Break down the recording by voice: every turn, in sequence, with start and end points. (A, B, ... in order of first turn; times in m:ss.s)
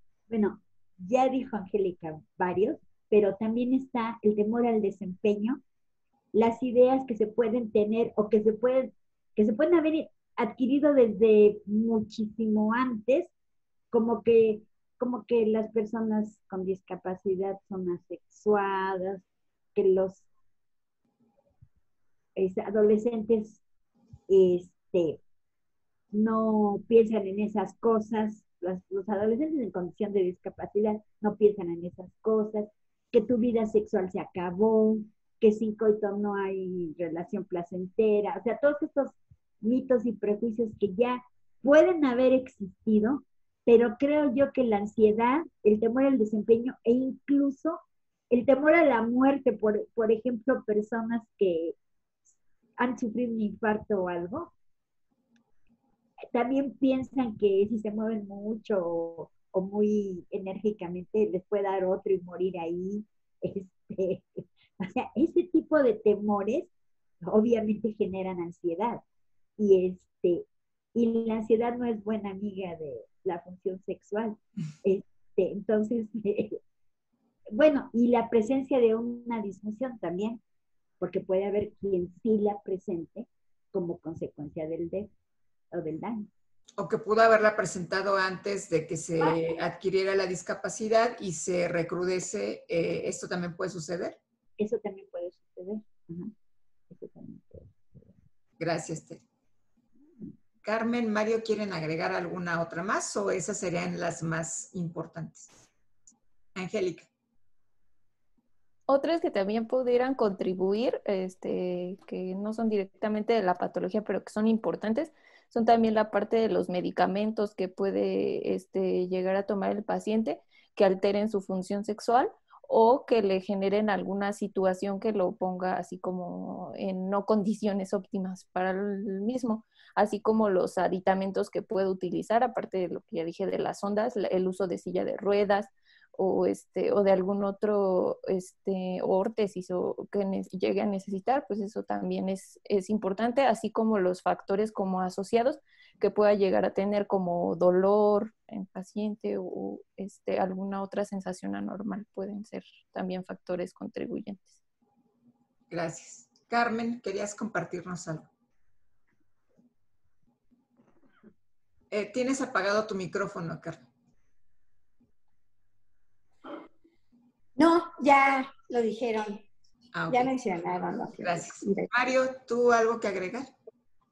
0:00.3-0:05.6 A
0:06.3-0:13.3 A
0:13.9-0:19.2 A
0:19.8-0:20.3 A
0:22.4-0:23.6 A
0:24.3-0:25.2 A
0:26.1-0:47.8 A
0:48.3-0:51.8 A
0:52.8-0:54.5 A
0:56.3-1:06.7 A
1:07.2-1:09.0 A
1:09.6-1:16.6 A
1:17.5-1:20.4 A
1:21.0-1:25.1 A
1:25.7-1:26.3 A
1:26.8-1:34.2 B
1:34.6-1:36.3 A
1:36.9-1:38.1 A
1:38.6-1:39.2 B
1:40.6-1:45.6 B
1:46.6-1:47.1 B
1:48.9-2:34.6 C
2:35.7-2:38.3 B
2:41.9-2:43.9 B
2:47.6-2:49.4 D
2:49.9-2:50.3 B
2:50.1-2:51.9 D
2:51.2-2:53.5 B